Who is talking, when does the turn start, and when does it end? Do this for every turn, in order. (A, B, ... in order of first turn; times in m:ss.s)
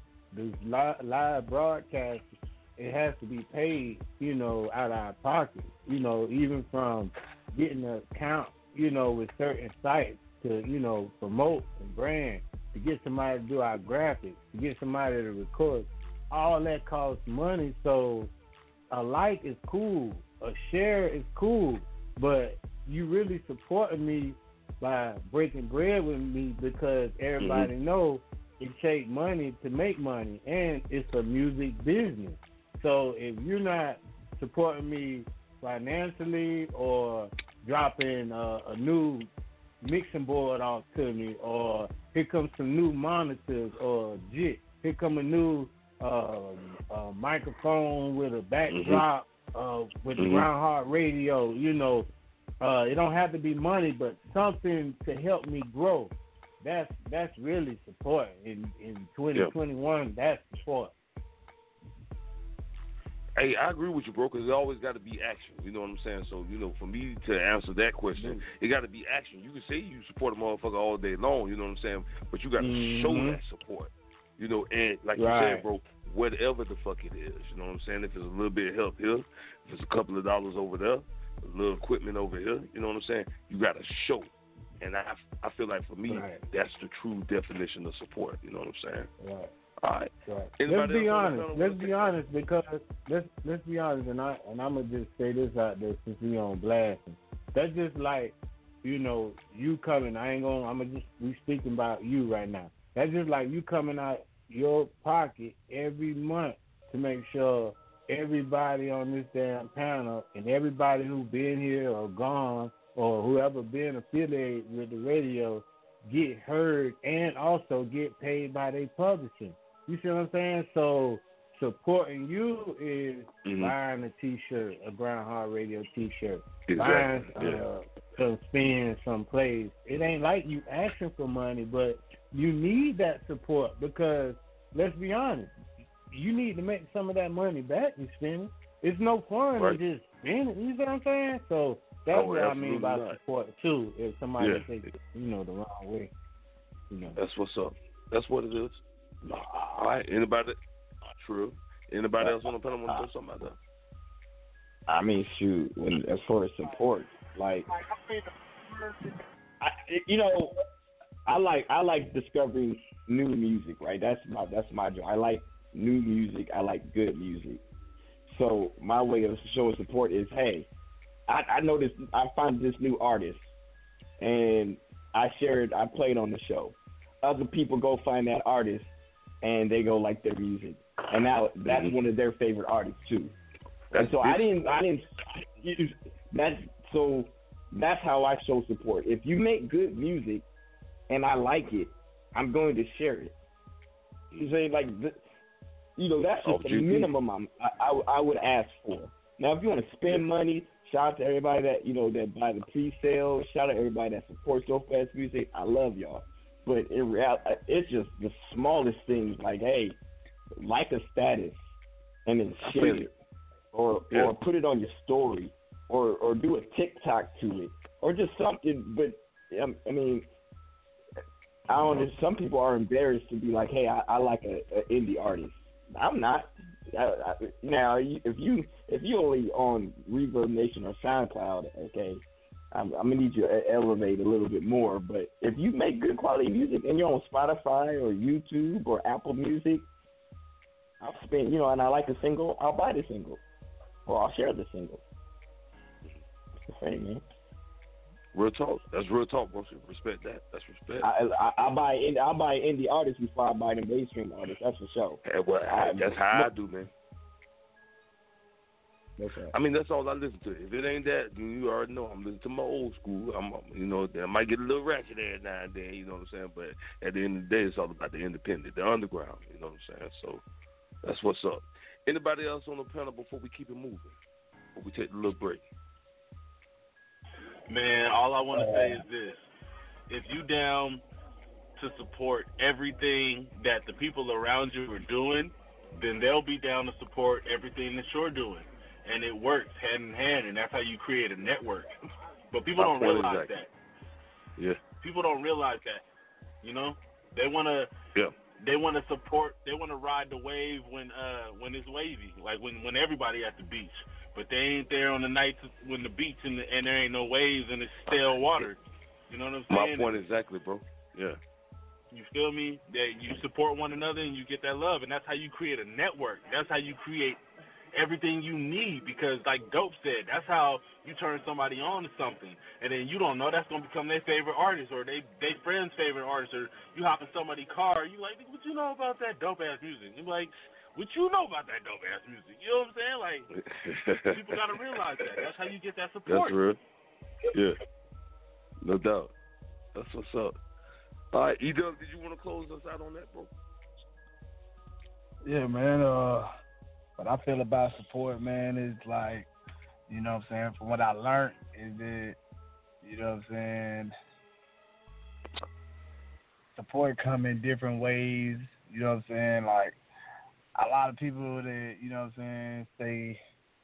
0:00.3-0:18.3 A
0:18.9-0:39.3 A
0:27.4-0:27.7 B
0:39.8-0:52.1 A
0:48.7-0:49.0 B
0:50.2-0:50.5 B
0:52.6-1:00.9 A
1:03.4-1:29.1 B
1:08.2-1:08.4 A
1:12.6-1:13.4 A
1:15.2-1:15.7 A
1:26.1-1:26.4 A
1:29.2-1:29.5 A
1:29.8-1:32.2 B
1:30.3-2:15.5 A
2:03.4-2:03.7 B
2:06.7-2:07.6 B
2:16.1-2:26.1 A
2:22.1-2:23.2 B
2:24.4-2:24.7 B
2:26.9-2:27.2 A
2:27.2-2:30.6 B
2:31.2-2:33.6 B
2:34.9-2:37.7 C
2:37.8-2:39.0 D
2:39.6-2:40.5 C
2:41.3-2:47.6 C
2:48.3-2:50.7 C
2:51.3-2:53.5 C
2:54.2-3:03.3 C
3:01.7-3:02.0 B
3:03.9-3:04.7 B
3:03.9-3:10.4 C
3:11.1-3:13.3 C
3:14.4-3:15.2 C
3:16.0-3:30.0 C
3:16.4-3:17.1 B
3:30.6-3:31.7 C
3:32.3-3:33.1 C
3:32.7-3:33.1 B
3:33.7-3:40.3 C
3:41.7-3:59.9 C
3:41.7-3:42.1 B
4:01.0-4:03.4 C
4:04.1-4:05.0 C
4:06.7-4:07.2 C
4:08.4-4:11.1 B
4:11.0-4:15.2 C
4:15.2-4:16.9 B
4:15.8-4:16.5 C
4:19.2-4:19.5 C
4:19.5-4:30.4 B
4:31.0-4:34.1 B
4:34.8-4:35.6 B
4:37.7-4:39.5 E
4:40.1-4:41.0 E
4:41.8-4:51.9 E
4:52.5-4:53.7 E
4:52.8-4:53.5 B
4:55.0-4:56.0 E
4:56.6-4:57.9 E
4:58.6-5:10.2 E
5:08.1-5:08.7 B
5:09.7-5:11.4 B
5:12.1-5:17.4 E
5:17.9-5:33.5 E
5:33.7-5:34.6 B
5:34.3-5:36.6 E
5:36.3-5:36.8 B
5:38.8-5:39.3 B
5:40.0-5:40.6 B
5:41.3-5:43.5 B
5:45.4-5:46.5 D
5:47.2-5:49.5 D
5:50.1-5:52.4 D
5:53.0-5:54.1 D
5:56.8-6:00.0 D
6:00.8-6:03.4 D